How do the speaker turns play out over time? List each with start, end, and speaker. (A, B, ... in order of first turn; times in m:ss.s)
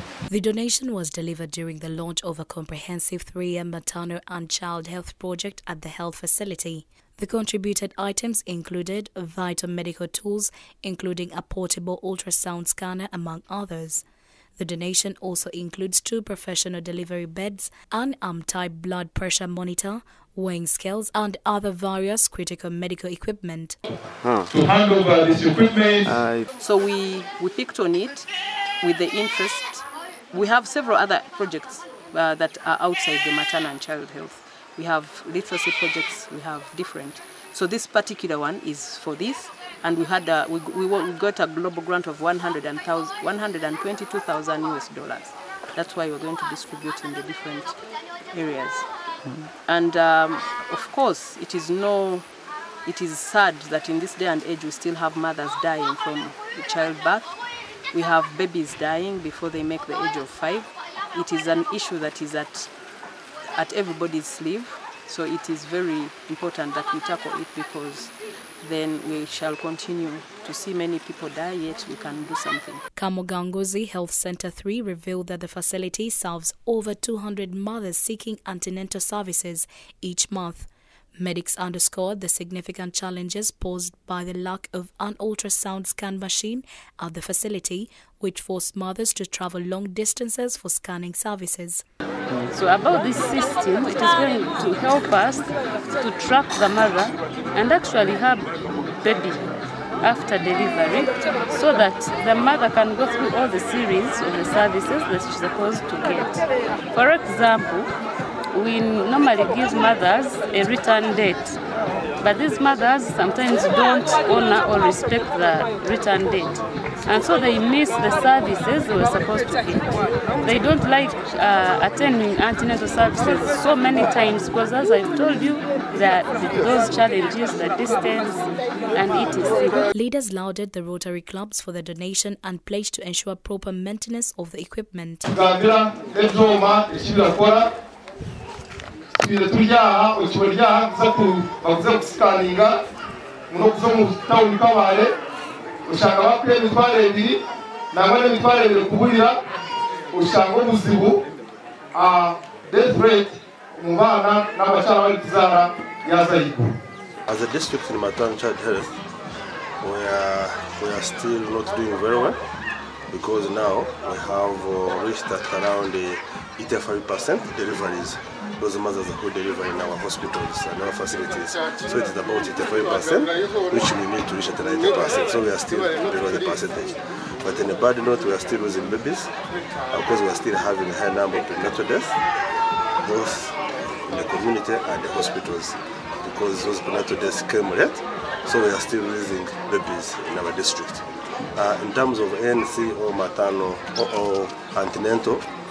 0:00.3-0:14.0 A
0:14.6-0:23.8 A
0:24.5-0:26.2 B
0:26.6-0:28.3 C
0:28.8-0:47.8 C
0:48.3-0:48.9 C
0:49.6-0:52.3 C
0:52.8-0:57.4 C
0:57.9-1:02.7 C
1:03.6-1:12.8 C
1:13.0-1:31.8 A
1:32.4-1:39.4 D
1:40.0-1:47.9 D
1:48.5-1:51.6 D
1:52.2-2:09.8 D
2:09.9-2:15.2 A
2:15.3-2:17.7 B
2:19.2-2:22.8 B
2:23.5-2:25.1 B
2:25.8-2:27.4 B
2:27.9-2:29.4 B
2:30.1-2:31.2 B
2:31.9-2:36.7 B
2:37.3-2:38.9 E
2:39.8-2:42.4 E
2:43.1-2:59.3 E
2:59.9-3:02.2 E
3:03.0-3:11.0 E
3:11.6-3:15.4 E